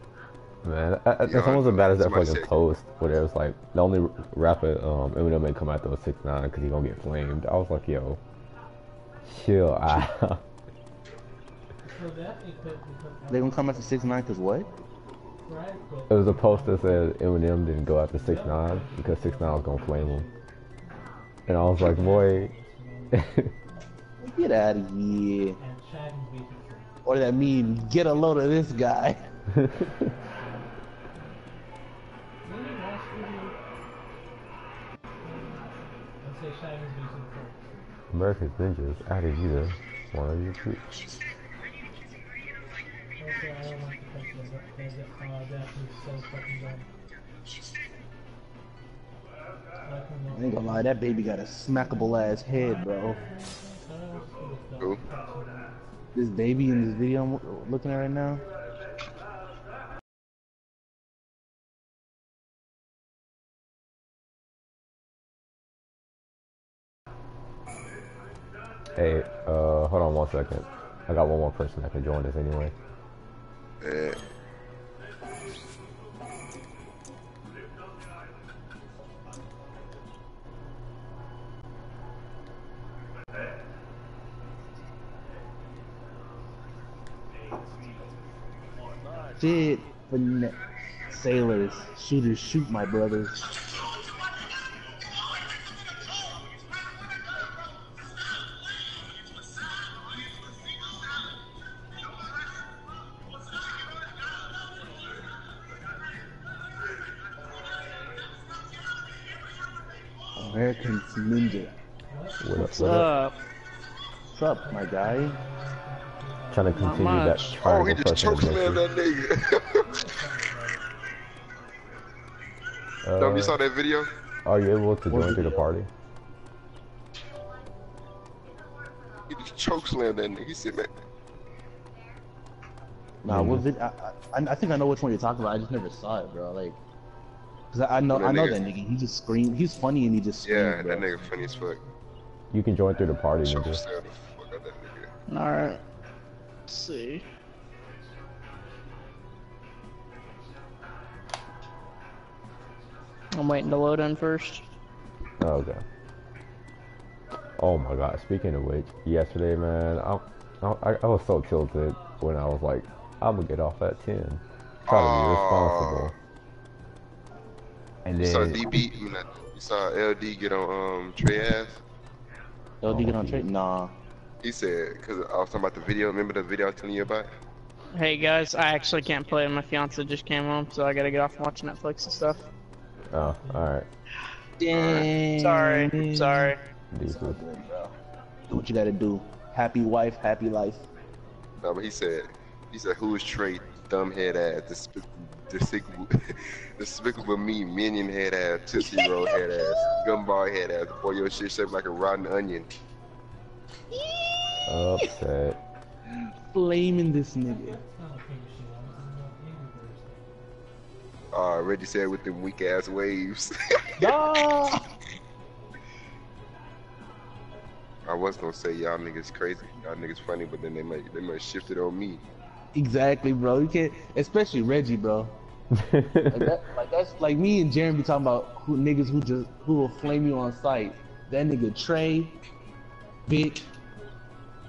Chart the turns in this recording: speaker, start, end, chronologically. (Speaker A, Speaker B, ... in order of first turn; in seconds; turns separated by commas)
Speaker A: 0.6-8.2, Speaker B: 1.3-2.6, Speaker A: 9.3-10.4, Speaker C: 11.8-14.3, Speaker D: 13.3-14.7, Speaker C: 15.4-17.1, Speaker A: 16.1-20.3, Speaker C: 18.2-20.5, Speaker A: 21.5-22.5, Speaker C: 21.5-23.5, Speaker A: 23.1-23.5, Speaker D: 24.2-25.6, Speaker C: 25.6-26.9, Speaker D: 27.0-29.2, Speaker C: 30.1-30.7, Speaker C: 32.5-33.6, Speaker C: 35.2-37.8, Speaker A: 38.1-41.0, Speaker C: 43.2-46.9, Speaker C: 49.9-51.0, Speaker D: 50.3-53.2, Speaker C: 51.9-56.0, Speaker D: 56.1-58.4, Speaker A: 69.0-72.7, Speaker B: 73.8-74.2, Speaker D: 89.4-93.5, Speaker D: 110.4-111.8, Speaker C: 112.1-112.5, Speaker A: 112.4-113.1, Speaker E: 112.6-113.3, Speaker D: 112.7-113.0, Speaker D: 114.3-115.4, Speaker C: 114.6-117.7, Speaker A: 116.5-118.8, Speaker E: 116.8-117.4, Speaker B: 117.6-119.9, Speaker C: 118.5-120.8, Speaker A: 123.0-123.6, Speaker B: 123.2-124.1, Speaker A: 124.5-125.9, Speaker D: 125.1-125.7, Speaker B: 129.3-130.9, Speaker D: 133.2-136.8, Speaker A: 133.3-133.7, Speaker D: 137.7-141.1, Speaker B: 138.1-138.6, Speaker B: 140.4-141.8, Speaker C: 140.9-142.0, Speaker A: 142.5-143.8, Speaker B: 143.4-145.1, Speaker E: 145.3-145.8, Speaker E: 146.7-147.2, Speaker E: 153.3-154.6, Speaker A: 155.4-155.8, Speaker A: 157.6-166.1, Speaker B: 164.9-166.1, Speaker A: 168.1-168.8, Speaker B: 168.2-171.8, Speaker D: 172.8-174.0, Speaker A: 172.9-173.5, Speaker B: 174.4-177.3, Speaker E: 177.9-182.4, Speaker A: 183.1-183.9, Speaker C: 183.4-183.7, Speaker D: 184.6-187.9, Speaker B: 184.7-185.1, Speaker E: 185.4-186.6, Speaker A: 186.9-187.4, Speaker D: 188.5-190.9, Speaker B: 191.6-202.7, Speaker D: 199.0-199.6, Speaker D: 204.0-205.1, Speaker A: 204.7-205.6, Speaker D: 206.5-207.8, Speaker C: 207.5-210.4, Speaker B: 211.3-214.2, Speaker D: 214.0-214.8, Speaker B: 218.1-222.2, Speaker D: 222.8-225.3, Speaker A: 225.7-226.5, Speaker D: 226.3-232.4, Speaker D: 233.3-233.7